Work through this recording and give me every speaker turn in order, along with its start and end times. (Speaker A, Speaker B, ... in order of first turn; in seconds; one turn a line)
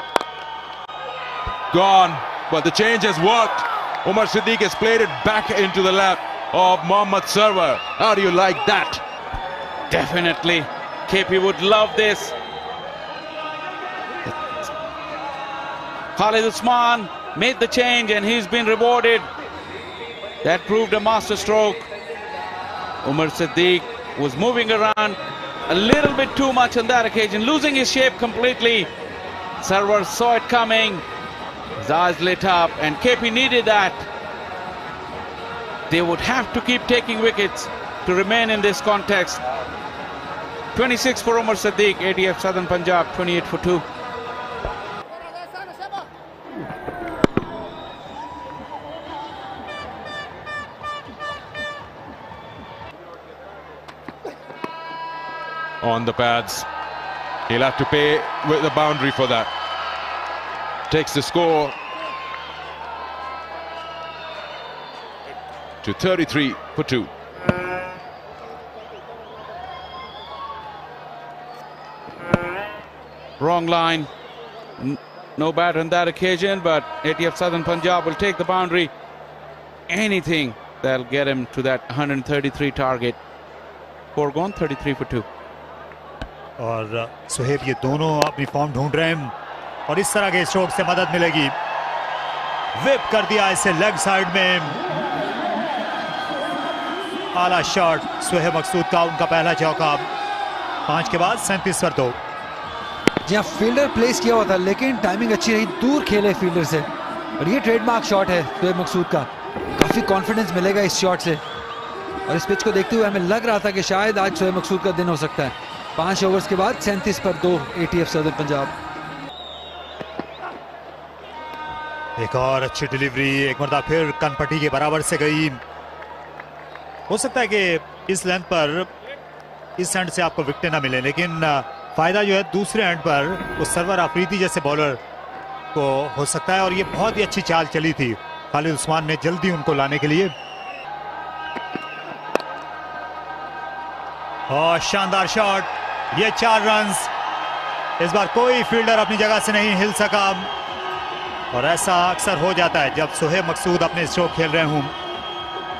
Speaker A: 1.7-9.0
Speaker B: 9.9-12.3
Speaker B: 14.2-14.7
Speaker B: 16.1-19.3
Speaker B: 20.4-21.9
Speaker B: 23.0-28.9
Speaker B: 29.6-31.0
Speaker B: 31.8-34.1
Speaker B: 35.9-39.4
Speaker B: 40.7-43.8
Speaker A: 55.8-56.7
Speaker A: 57.5-59.5
Speaker A: 60.9-61.7
Speaker A: 65.8-67.1
Speaker B: 73.4-74.1
Speaker B: 74.8-78.9
Speaker B: 79.9-83.2
Speaker B: 84.1-85.3
Speaker C: 86.6-89.3
Speaker C: 89.9-91.5
Speaker C: 92.8-94.8
Speaker C: 97.3-100.0
Speaker C: 100.9-102.2
Speaker D: 103.2-106.9
Speaker D: 107.4-111.4
Speaker D: 112.3-118.7
Speaker C: 122.2-125.6
Speaker C: 127.1-128.9
Speaker C: 129.8-135.0
Speaker C: 135.7-140.3
Speaker C: 144.5-147.1
Speaker C: 148.0-150.5
Speaker C: 151.5-154.9